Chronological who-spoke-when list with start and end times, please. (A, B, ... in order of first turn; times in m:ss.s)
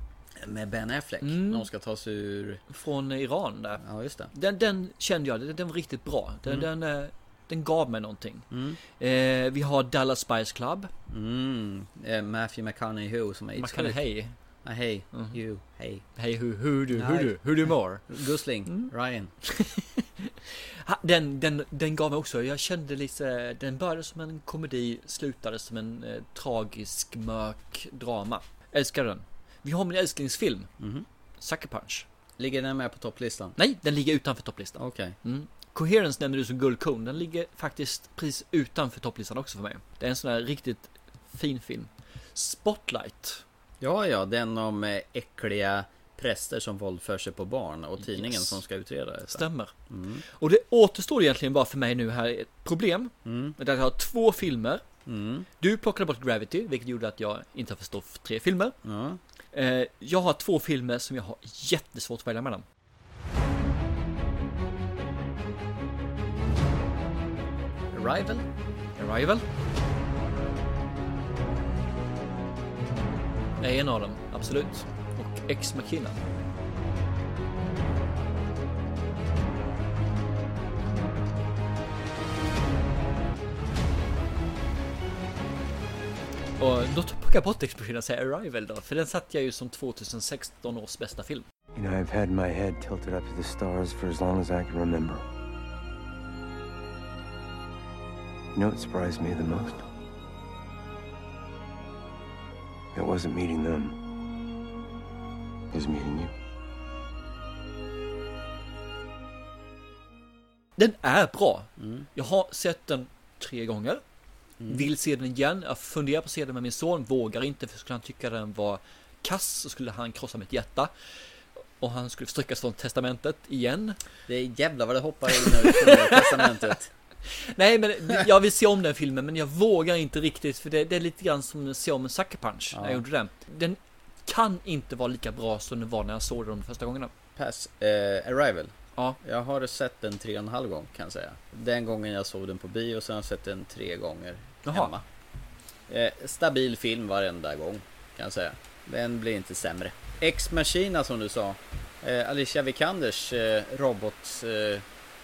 0:00.4-0:02.6 A
0:01.2-0:01.7 B
0:02.7-0:03.8 B
0:03.8-0:04.3 A
0:04.3-0:10.9 B
0:08.5-0:08.8 A
0:11.1-0:14.0 A
0:13.6-0:14.3 B
0:14.6-0:16.0 A
0:16.2-0:18.1 B
0:16.9-0:19.3 A
0:19.5-0:30.7 B
0:30.8-0:31.0 A
0:31.4-0:32.0 B
0:32.4-0:33.6 A
0:33.6-0:43.4 B
0:34.8-0:35.2 A
0:43.8-0:50.2 A
0:48.0-0:48.6 B
0:49.3-0:49.7 B
0:50.4-0:54.8 B
0:53.2-0:53.6 A
0:55.0-0:55.5 A
0:55.6-0:58.7 B
0:58.8-0:59.2 A
0:59.5-1:02.6 B
1:07.9-1:08.4 A
1:09.0-1:09.4 B
1:13.6-1:16.2 B
1:26.6-1:31.4 B
1:31.7-1:35.2 C
1:38.5-1:39.8 C
1:42.9-1:43.9 C
1:45.7-1:46.3 C
1:50.8-1:54.0 B
1:51.8-1:52.0 A
1:54.6-1:54.9 A
1:54.7-2:00.9 B
2:01.8-2:04.0 B
2:04.3-2:06.9 A
2:05.3-2:06.5 B
2:07.3-2:17.1 B
2:12.7-2:13.0 A
2:17.4-2:25.0 A
2:24.6-2:24.9 B
2:25.9-2:34.8 A